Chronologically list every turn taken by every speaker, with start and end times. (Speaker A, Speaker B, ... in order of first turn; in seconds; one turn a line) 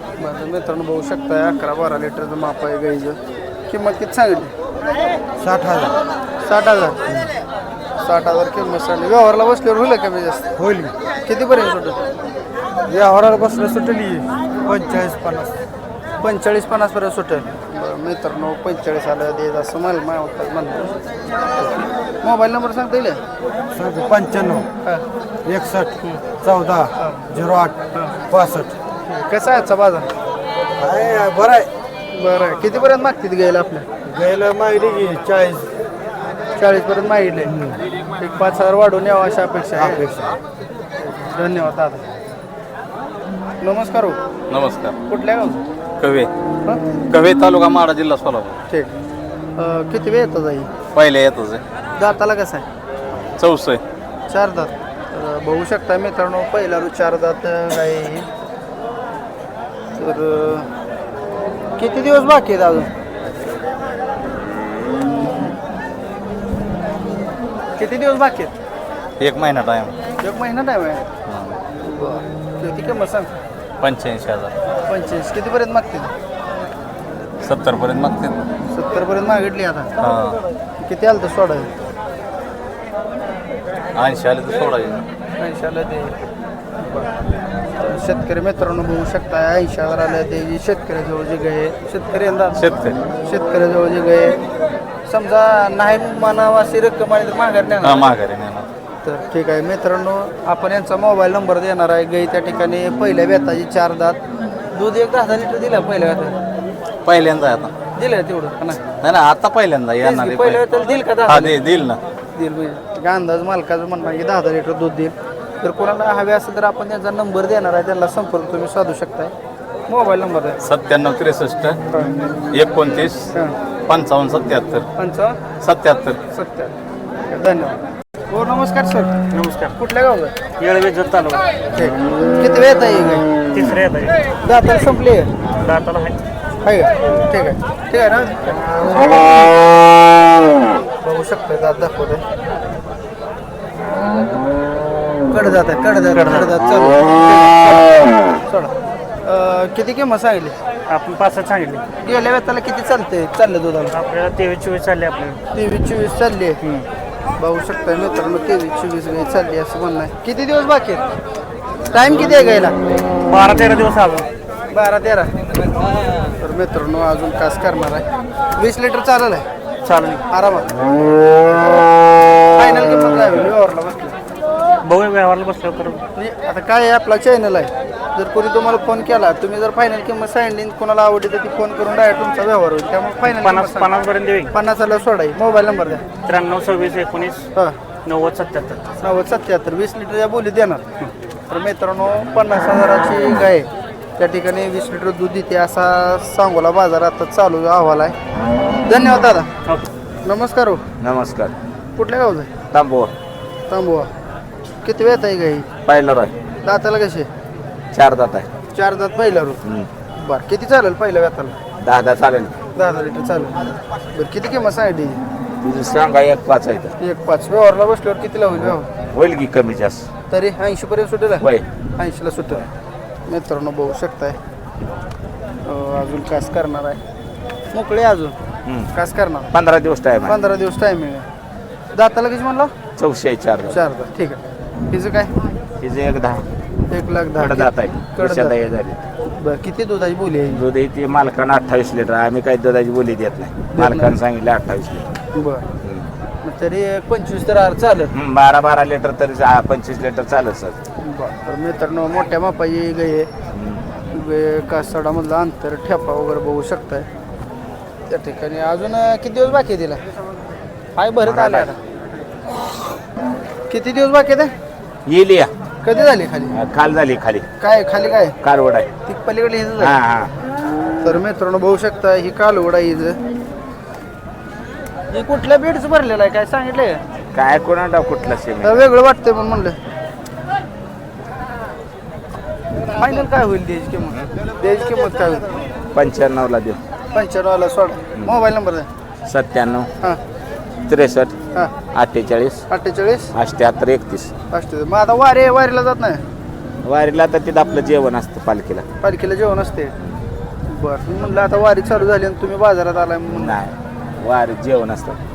Speaker A: 0.2-4.5
Speaker B: 5.4-6.0
Speaker A: 6.4-7.0
Speaker A: 8.0-10.4
Speaker B: 10.6-10.9
Speaker A: 11.2-12.0
Speaker B: 12.9-15.5
Speaker A: 16.2-20.9
Speaker A: 22.2-23.2
Speaker B: 23.7-24.7
Speaker B: 25.4-27.8
Speaker A: 27.0-27.3
Speaker B: 28.3-28.8
Speaker A: 29.1-30.1
Speaker B: 30.8-31.7
Speaker A: 32.1-33.9
Speaker B: 34.0-35.7
Speaker A: 36.6-37.5
Speaker A: 38.2-40.0
Speaker B: 39.8-40.4
Speaker A: 41.0-42.0
Speaker A: 43.6-44.2
Speaker C: 44.5-45.0
Speaker A: 45.1-45.6
Speaker C: 46.0-46.3
Speaker C: 47.1-48.6
Speaker A: 49.6-50.7
Speaker C: 50.9-51.6
Speaker A: 52.0-52.6
Speaker C: 53.4-53.8
Speaker A: 54.3-58.3
Speaker A: 60.0-60.7
Speaker A: 61.8-62.9
Speaker A: 67.8-68.5
Speaker C: 69.2-69.9
Speaker A: 70.2-71.0
Speaker C: 71.3-71.6
Speaker A: 71.8-73.3
Speaker C: 73.8-74.5
Speaker A: 74.8-76.1
Speaker C: 77.4-78.4
Speaker A: 78.7-79.9
Speaker C: 80.0-80.4
Speaker A: 80.8-81.7
Speaker C: 83.9-85.0
Speaker A: 85.4-86.2
Speaker A: 86.8-87.1
Speaker A: 87.8-92.6
Speaker C: 92.5-93.0
Speaker A: 93.2-94.4
Speaker A: 95.1-98.1
Speaker C: 97.8-98.7
Speaker A: 99.0-104.2
Speaker A: 104.7-106.3
Speaker C: 107.0-107.7
Speaker A: 108.0-108.8
Speaker C: 109.0-110.6
Speaker A: 110.0-111.5
Speaker C: 111.2-112.0
Speaker A: 112.3-119.3
Speaker A: 119.9-120.6
Speaker C: 120.6-121.8
Speaker C: 122.5-123.3
Speaker C: 123.9-124.9
Speaker A: 125.0-125.4
Speaker C: 125.6-126.2
Speaker A: 126.3-126.7
Speaker A: 127.3-127.8
Speaker A: 128.3-129.1
Speaker D: 129.3-129.7
Speaker A: 129.8-130.3
Speaker D: 130.6-131.4
Speaker A: 131.7-133.3
Speaker D: 133.5-134.2
Speaker A: 134.4-135.3
Speaker D: 135.6-136.2
Speaker A: 136.6-138.4
Speaker A: 141.0-142.2
Speaker A: 145.3-147.9
Speaker A: 148.4-148.7
Speaker A: 149.2-150.6
Speaker D: 150.9-151.8
Speaker A: 152.0-153.9
Speaker D: 153.9-155.4
Speaker A: 155.5-156.6
Speaker A: 157.4-161.1
Speaker A: 161.9-162.8
Speaker D: 163.3-164.3
Speaker A: 164.7-165.3
Speaker A: 166.3-168.1
Speaker A: 168.6-169.4
Speaker D: 169.8-170.2
Speaker A: 170.3-170.7
Speaker A: 172.5-174.2
Speaker D: 174.8-176.0
Speaker A: 176.1-183.9
Speaker D: 183.2-184.5
Speaker A: 184.5-186.0
Speaker D: 186.2-187.5
Speaker D: 188.0-188.8
Speaker A: 189.0-198.2
Speaker A: 198.8-199.5
Speaker A: 200.2-200.8
Speaker E: 201.0-201.5
Speaker A: 201.9-202.5
Speaker E: 202.7-203.1
Speaker A: 203.7-204.1
Speaker A: 204.8-205.7
Speaker E: 205.8-206.3
Speaker A: 206.6-207.3
Speaker E: 207.9-208.5
Speaker A: 208.7-209.6
Speaker E: 209.6-209.9
Speaker A: 210.2-211.6
Speaker E: 211.8-212.5
Speaker A: 212.7-213.6
Speaker A: 214.1-215.2
Speaker E: 215.6-216.9
Speaker A: 217.0-218.9
Speaker E: 218.7-220.1
Speaker A: 220.3-221.4
Speaker E: 221.4-221.7
Speaker A: 222.0-222.7
Speaker A: 223.3-224.4
Speaker A: 225.6-227.0
Speaker A: 227.7-228.4
Speaker E: 228.7-228.9
Speaker A: 228.9-229.5
Speaker E: 229.5-230.3
Speaker A: 230.2-231.3
Speaker A: 231.9-232.7
Speaker E: 233.0-233.8
Speaker A: 233.7-235.3
Speaker E: 235.8-236.4
Speaker A: 236.9-238.6
Speaker E: 237.4-239.0
Speaker A: 239.4-240.6
Speaker E: 240.5-245.1
Speaker A: 243.7-244.2
Speaker A: 245.3-245.7
Speaker E: 245.8-246.1
Speaker A: 246.4-248.1
Speaker E: 248.1-250.8
Speaker A: 251.0-253.3
Speaker E: 253.5-253.8
Speaker A: 254.1-257.1
Speaker A: 258.1-260.0
Speaker A: 260.9-261.8
Speaker E: 261.2-261.7
Speaker A: 263.7-264.5
Speaker E: 265.1-265.5
Speaker A: 265.8-266.5
Speaker E: 266.5-267.5
Speaker A: 267.6-268.4
Speaker E: 268.4-268.9
Speaker A: 269.1-269.9
Speaker E: 269.8-270.3
Speaker A: 271.0-273.2
Speaker A: 275.1-277.0
Speaker E: 277.3-278.8
Speaker A: 278.6-279.8
Speaker A: 282.9-285.6
Speaker E: 285.9-286.8
Speaker A: 287.1-288.9
Speaker E: 288.2-288.4
Speaker E: 289.2-289.9
Speaker E: 290.9-291.4
Speaker E: 291.9-292.6
Speaker A: 292.7-293.3
Speaker E: 293.3-294.3
Speaker A: 294.5-296.2
Speaker E: 296.8-298.8
Speaker A: 299.0-299.9
Speaker A: 300.7-303.6
Speaker E: 303.3-305.2